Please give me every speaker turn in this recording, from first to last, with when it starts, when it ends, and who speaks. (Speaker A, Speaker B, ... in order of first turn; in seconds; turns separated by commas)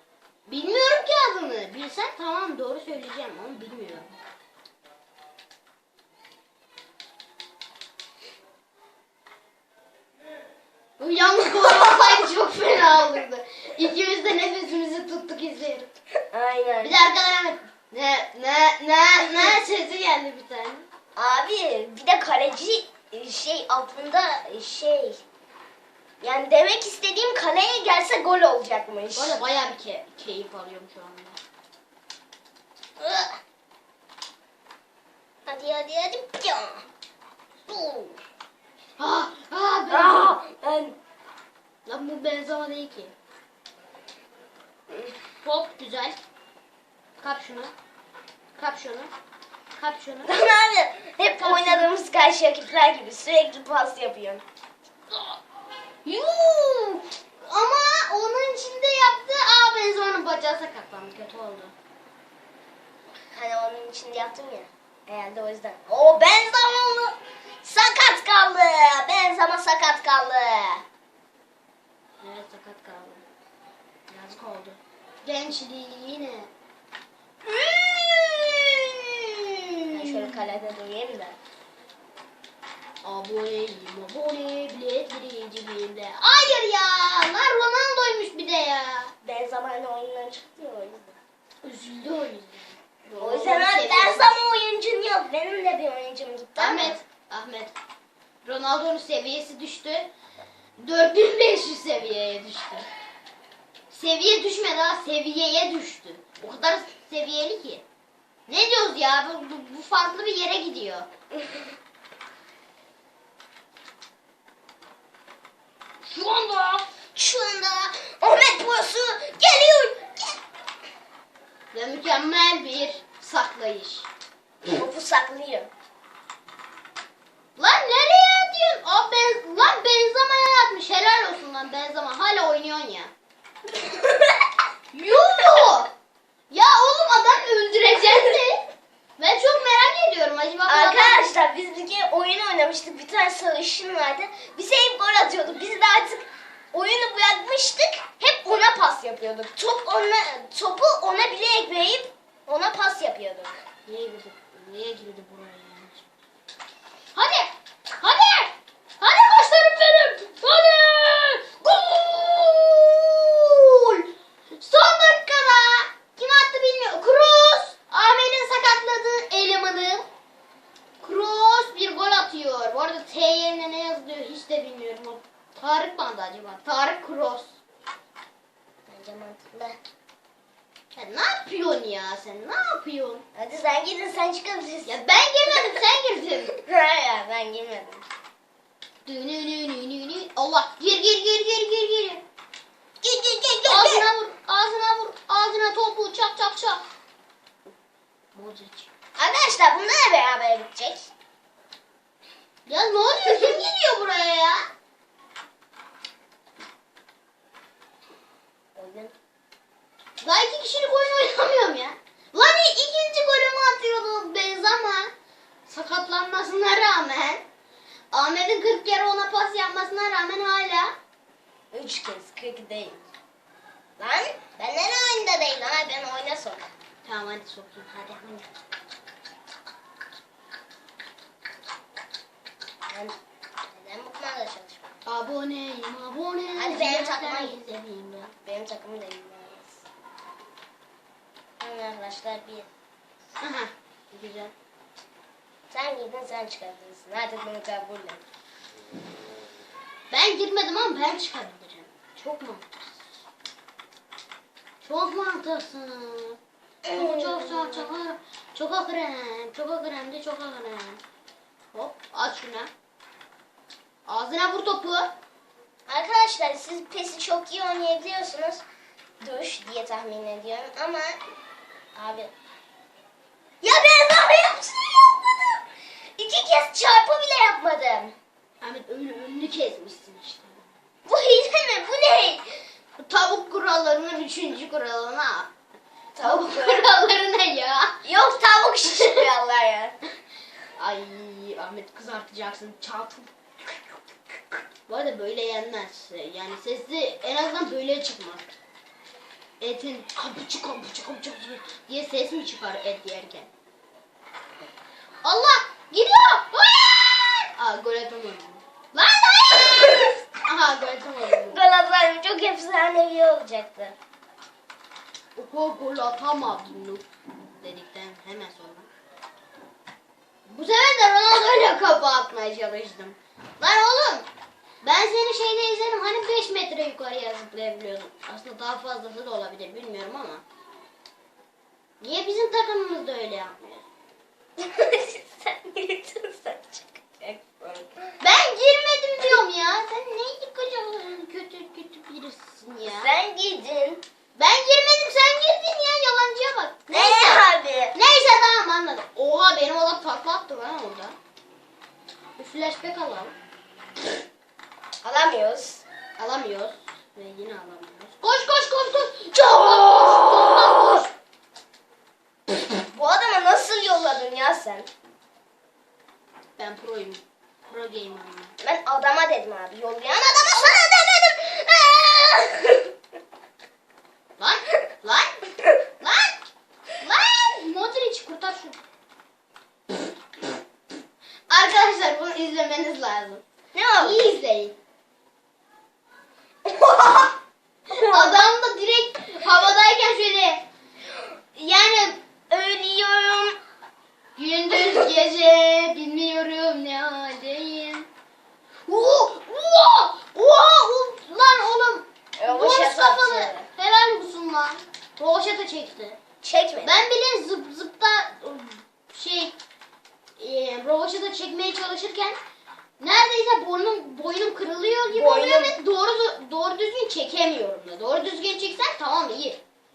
Speaker A: 0.5-4.1, Speaker A: 11.0-15.9, Speaker B: 11.6-12.2, Speaker B: 16.3-17.0, Speaker A: 16.8-20.9, Speaker B: 19.2-19.6, Speaker B: 21.2-25.2, Speaker B: 26.2-29.4, Speaker A: 29.1-31.4, Speaker B: 33.0-33.4, Speaker B: 35.5-36.9, Speaker B: 37.7-38.1, Speaker A: 39.0-40.4, Speaker B: 39.9-41.0, Speaker A: 41.9-43.1, Speaker A: 45.4-46.2, Speaker A: 47.2-47.7, Speaker A: 48.5-49.1, Speaker A: 49.8-50.3, Speaker B: 50.2-54.4, Speaker A: 51.4-51.9, Speaker A: 55.1-55.4, Speaker A: 56.0-61.7, Speaker B: 63.3-70.8, Speaker A: 72.2-73.2, Speaker A: 74.1-76.5, Speaker A: 77.4-80.6, Speaker B: 79.9-81.4, Speaker A: 83.0-89.1, Speaker B: 89.2-91.2, Speaker A: 91.6-94.4, Speaker B: 93.2-97.0, Speaker A: 96.6-97.8, Speaker A: 98.4-100.1, Speaker A: 100.8-102.9, Speaker A: 103.9-107.8, Speaker A: 108.5-111.1, Speaker A: 116.0-116.9, Speaker B: 117.2-120.4, Speaker A: 121.7-124.1, Speaker B: 124.7-125.7, Speaker A: 127.6-133.1, Speaker B: 133.8-134.5, Speaker A: 134.9-135.9, Speaker A: 136.5-138.7, Speaker A: 139.2-141.2, Speaker B: 140.7-153.6, Speaker A: 153.9-156.1, Speaker A: 157.2-170.1, Speaker A: 171.0-177.6, Speaker B: 178.9-179.8, Speaker A: 180.9-183.2, Speaker B: 183.3-185.8, Speaker A: 184.8-186.6, Speaker B: 186.6-188.0, Speaker A: 189.1-192.2, Speaker B: 193.0-194.1, Speaker A: 193.6-196.8, Speaker A: 198.3-198.9, Speaker B: 199.2-201.1, Speaker A: 202.7-204.7, Speaker B: 208.8-209.1, Speaker A: 210.2-215.1, Speaker A: 215.7-217.4, Speaker A: 218.1-220.9, Speaker B: 221.7-223.1, Speaker B: 224.0-226.7, Speaker A: 227.0-228.5, Speaker B: 232.9-235.0, Speaker A: 235.1-238.3, Speaker B: 236.6-237.6, Speaker B: 238.4-239.8, Speaker B: 241.6-242.7, Speaker A: 243.4-244.5, Speaker B: 245.7-248.2, Speaker A: 250.1-253.0, Speaker A: 254.8-261.0, Speaker B: 256.9-257.9, Speaker A: 261.7-262.7, Speaker A: 264.1-265.1, Speaker B: 265.9-268.6, Speaker B: 269.2-271.2, Speaker B: 271.9-272.3, Speaker B: 273.6-275.6, Speaker B: 276.2-278.1, Speaker A: 278.6-280.7, Speaker B: 281.1-282.6, Speaker A: 283.0-285.5, Speaker B: 286.1-286.9, Speaker A: 286.2-288.0, Speaker B: 288.0-290.0, Speaker A: 288.9-289.2, Speaker A: 290.8-298.5, Speaker A: 299.6-303.5, Speaker A: 305.2-311.6, Speaker B: 311.4-313.9, Speaker A: 315.4-318.9, Speaker A: 320.5-324.3, Speaker A: 324.8-330.4, Speaker A: 332.0-333.9, Speaker B: 334.6-338.2, Speaker A: 338.2-343.1, Speaker B: 342.8-344.0, Speaker A: 344.4-347.4, Speaker B: 346.9-348.0, Speaker A: 347.9-351.2, Speaker A: 352.4-353.3, Speaker B: 355.0-355.8, Speaker A: 356.2-361.1, Speaker B: 362.9-364.9, Speaker A: 366.6-368.6, Speaker B: 368.6-372.9, Speaker A: 374.4-375.4, Speaker A: 376.0-376.4, Speaker A: 377.0-378.8, Speaker A: 381.5-383.4, Speaker B: 383.7-384.3, Speaker A: 384.0-384.8, Speaker B: 386.7-387.4, Speaker B: 387.9-388.5, Speaker A: 387.9-390.6, Speaker B: 391.6-393.6, Speaker A: 394.4-398.1, Speaker A: 398.9-406.2, Speaker B: 402.4-403.7, Speaker B: 406.4-407.0, Speaker A: 406.8-409.6, Speaker A: 410.4-412.4, Speaker A: 413.0-419.6, Speaker B: 415.1-415.8